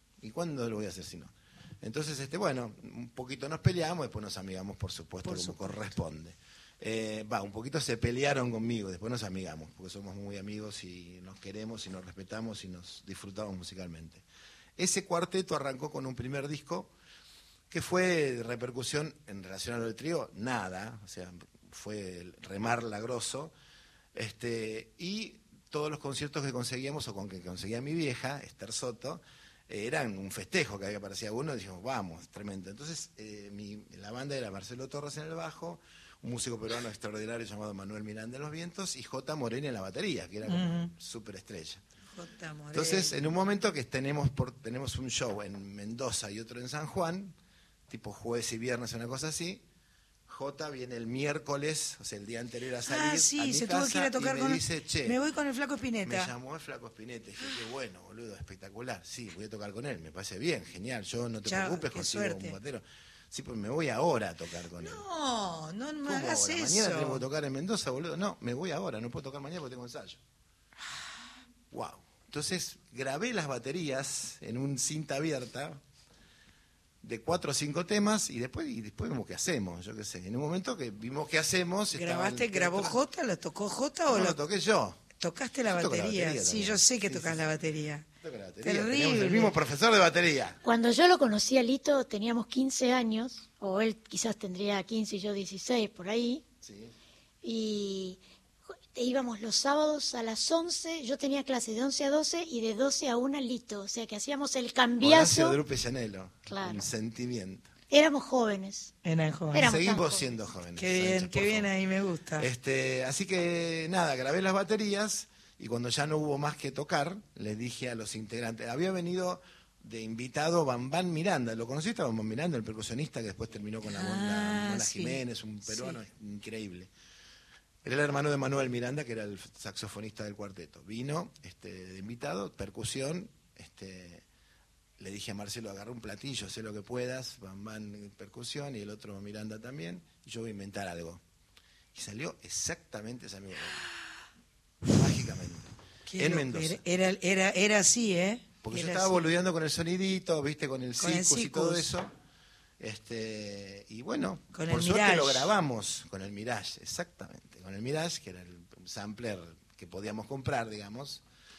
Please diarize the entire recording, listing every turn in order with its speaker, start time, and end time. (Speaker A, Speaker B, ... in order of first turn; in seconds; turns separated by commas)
Speaker A: 0.2-14.2, Speaker B: 5.2-5.9, Speaker A: 14.8-16.9, Speaker A: 17.7-23.5, Speaker A: 24.1-41.8, Speaker B: 40.5-40.9, Speaker B: 42.1-43.2, Speaker A: 42.7-47.3, Speaker A: 47.9-49.6, Speaker A: 50.3-55.2, Speaker B: 52.8-56.3, Speaker A: 56.0-65.0, Speaker B: 61.4-62.6, Speaker B: 64.8-67.2, Speaker A: 66.0-70.2, Speaker A: 71.7-75.8, Speaker A: 77.0-83.0, Speaker B: 81.9-84.4, Speaker A: 84.1-85.1, Speaker B: 85.2-88.1, Speaker A: 85.7-87.4, Speaker A: 88.2-90.6, Speaker B: 88.6-89.5, Speaker C: 90.7-96.4, Speaker A: 96.6-96.9, Speaker C: 97.4-98.2, Speaker C: 99.0-105.6, Speaker A: 105.0-107.7, Speaker C: 106.5-106.9, Speaker C: 107.9-108.9, Speaker B: 109.0-109.7, Speaker C: 109.5-110.3, Speaker A: 109.6-111.7, Speaker B: 110.8-112.5, Speaker A: 112.4-126.9, Speaker B: 123.8-126.0, Speaker A: 127.8-134.2, Speaker A: 135.0-141.2, Speaker A: 141.9-143.8, Speaker A: 144.9-146.8, Speaker B: 146.1-149.2, Speaker A: 148.6-152.1, Speaker B: 151.0-151.9, Speaker A: 152.8-161.2, Speaker B: 154.5-155.5